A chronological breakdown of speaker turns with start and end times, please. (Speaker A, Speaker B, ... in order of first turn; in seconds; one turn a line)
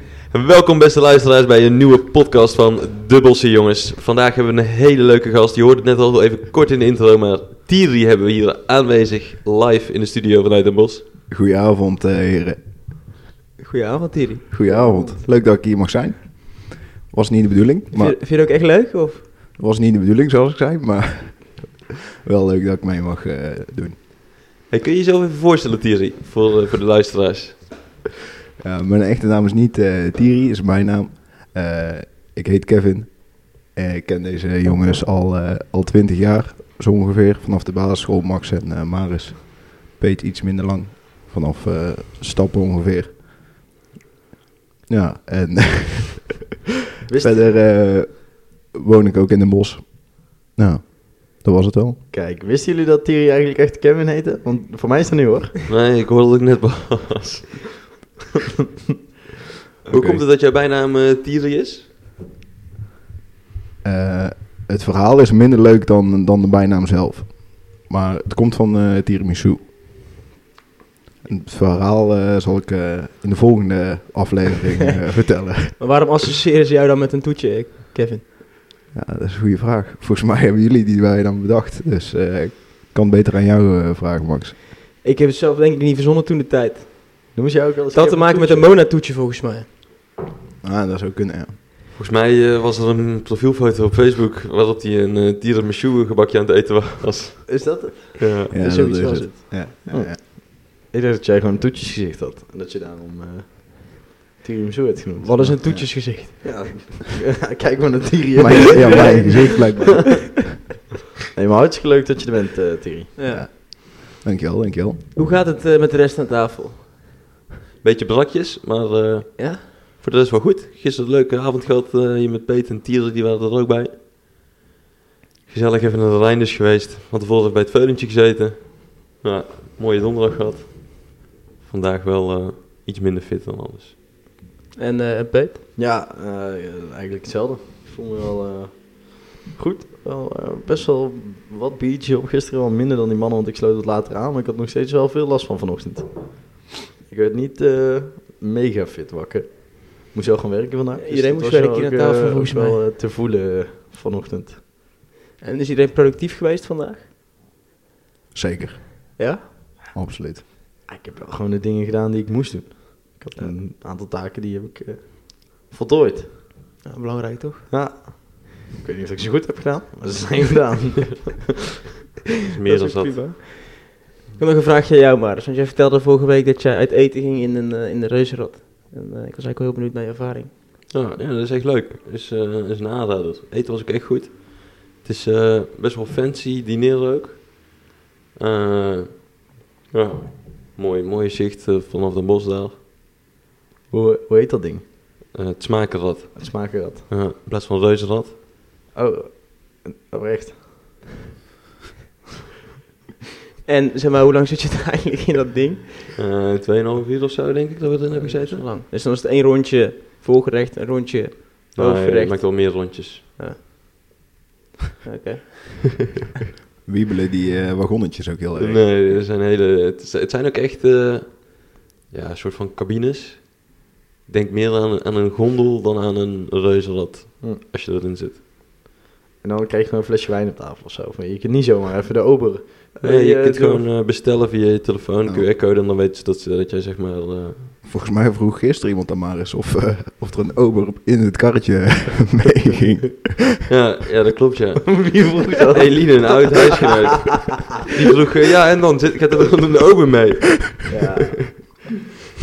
Speaker A: 0.3-11.0
Speaker B: 11.3-12.6
Speaker C: 13.6-15.2
Speaker B: 14.5-18.2
Speaker D: 14.7-14.9
Speaker C: 17.9-19.2
Speaker B: 19.6-23.9
Speaker A: 24.7-27.9
Speaker B: 28.6-43.2
Speaker B: 44.9-46.3
Speaker D: 47.1-47.5
Speaker B: 47.2-52.0
Speaker D: 52.1-55.6
Speaker A: 55.7-57.7
Speaker B: 59.9-60.2
Speaker A: 59.9-61.9
Speaker B: 63.8-69.7
Speaker B: 71.2-75.8
Speaker C: 75.8-78.2
Speaker B: 78.9-84.5
Speaker C: 85.0-87.3
Speaker D: 87.3-88.7
Speaker C: 87.9-89.7
Speaker B: 90.6-91.5
Speaker A: 92.0-98.5
Speaker D: 97.5-98.2
Speaker B: 98.5-100.2
Speaker C: 98.6-99.6
Speaker D: 99.9-109.8
Speaker C: 105.2-106.7
Speaker B: 108.3-110.5
Speaker C: 108.8-109.8
Speaker D: 111.3-113.1
Speaker C: 113.2-113.5
Speaker B: 113.3-115.0
Speaker C: 115.1-116.8
Speaker A: 117.8-124.0
Speaker C: 119.4-119.7
Speaker A: 125.5-133.9
Speaker C: 134.8-135.6
Speaker D: 135.8-154.6
Speaker C: 151.0-152.8
Speaker C: 155.4-157.0
Speaker B: 158.3-159.2
Speaker C: 159.2-159.5
Speaker B: 159.9-160.4
Speaker D: 160.9-166.3
Speaker C: 166.8-167.7
Speaker D: 167.7-171.4
Speaker A: 172.5-173.3
Speaker C: 172.7-180.5
Speaker A: 180.9-187.8
Speaker A: 188.3-192.8
Speaker D: 193.9-194.8
Speaker A: 195.3-198.3
Speaker D: 196.3-197.1
Speaker D: 198.9-201.0
Speaker C: 203.6-206.1
Speaker A: 206.2-208.7
Speaker C: 208.1-213.6
Speaker A: 211.7-213.2
Speaker C: 215.0-215.9
Speaker B: 216.8-218.9
Speaker A: 218.6-228.4
Speaker D: 229.4-233.9
Speaker A: 233.0-237.7
Speaker B: 237.8-243.4
Speaker A: 243.7-251.0
Speaker D: 244.9-247.0
Speaker D: 250.8-251.8